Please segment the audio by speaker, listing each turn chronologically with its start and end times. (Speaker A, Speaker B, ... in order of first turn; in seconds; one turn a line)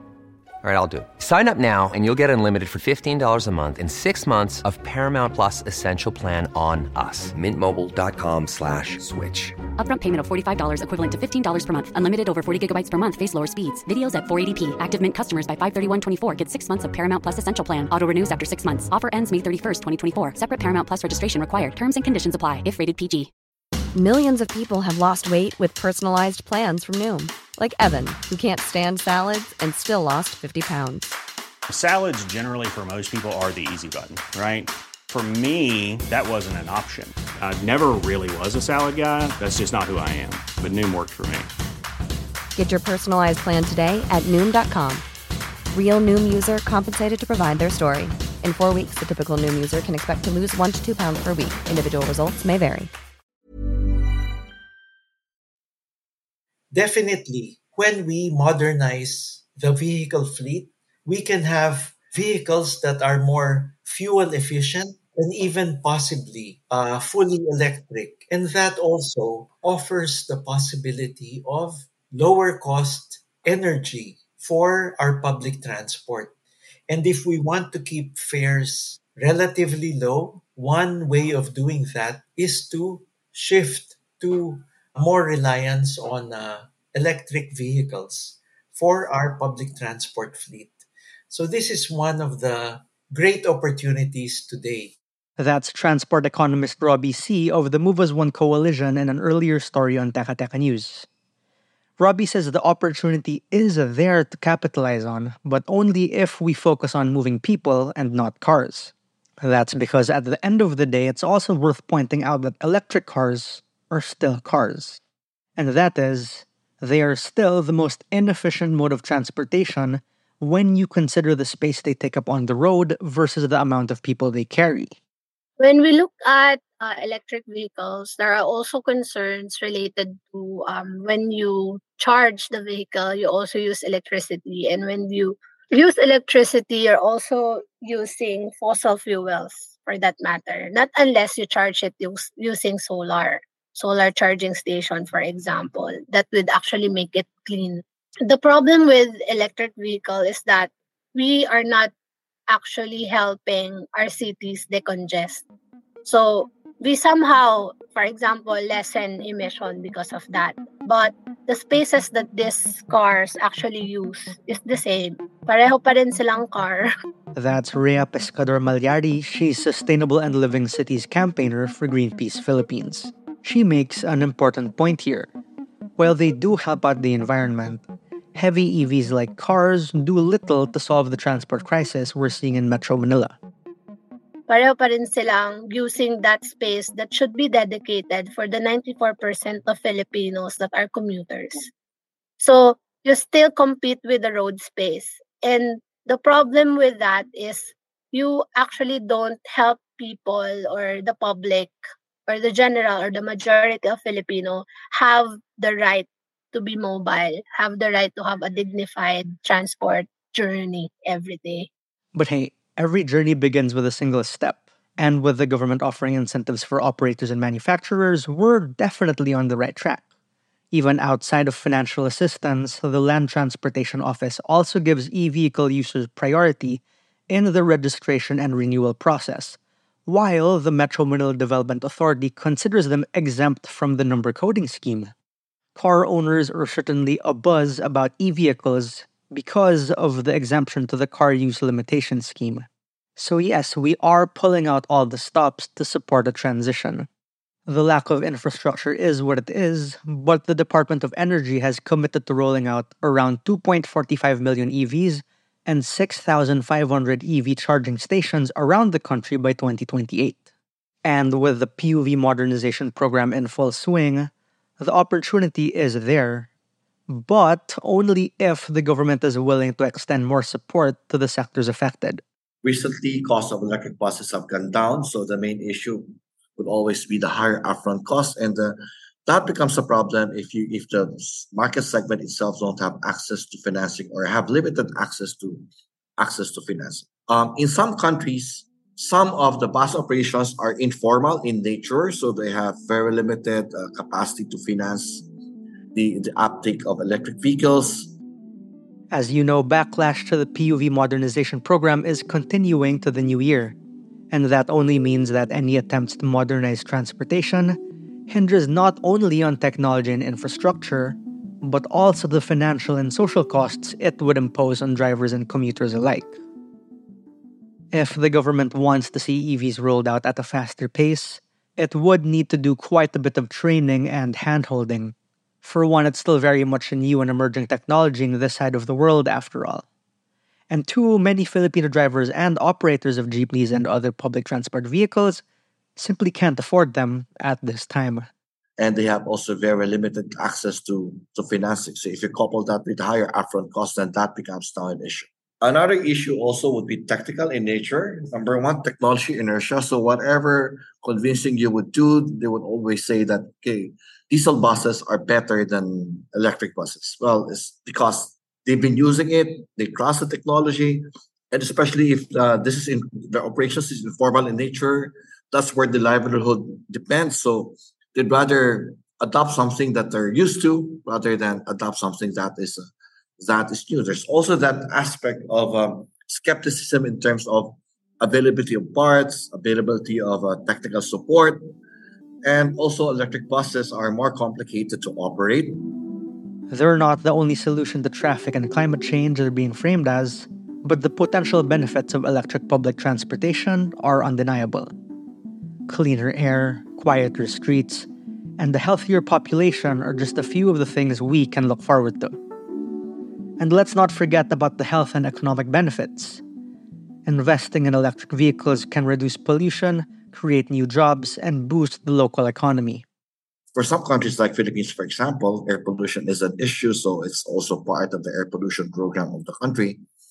Speaker A: 0.6-9.5
Speaker B: 9.8-23.3
Speaker C: 23.9-31.1
Speaker D: 31.7-41.5
Speaker C: 42.6-45.0
Speaker C: 45.7-52.9
Speaker E: 56.7-76.3
Speaker E: 76.9-90.7
Speaker E: 91.3-94.9
Speaker F: 95.4-101.1
Speaker F: 102.0-115.0
Speaker F: 115.6-125.0
Speaker G: 125.6-151.9
Speaker G: 152.5-155.4
Speaker G: 156.1-166.9
Speaker F: 167.3-175.3
Speaker F: 176.0-183.4
Speaker G: 184.5-191.6
Speaker G: 192.4-201.8
Speaker G: 202.3-211.7
Speaker F: 212.2-220.0
Speaker F: 220.7-235.1
Speaker F: 235.8-247.1
Speaker F: 247.7-260.4
Speaker F: 261.0-266.5
Speaker F: 267.1-272.2
Speaker H: 272.6-276.1
Speaker H: 276.6-285.7
Speaker H: 286.2-295.3
Speaker H: 295.9-298.1
Speaker F: 299.1-303.8
Speaker F: 304.3-307.8
Speaker F: 308.3-316.4
Speaker F: 317.9-329.9
Speaker F: 330.7-335.4
Speaker F: 336.0-338.3
Speaker H: 338.8-372.9
Speaker H: 373.4-381.7
Speaker H: 382.4-385.9
Speaker F: 386.7-394.9
Speaker F: 395.9-398.1
Speaker F: 398.6-402.4
Speaker F: 403.6-406.4
Speaker F: 407.3-413.0
Speaker H: 413.7-420.0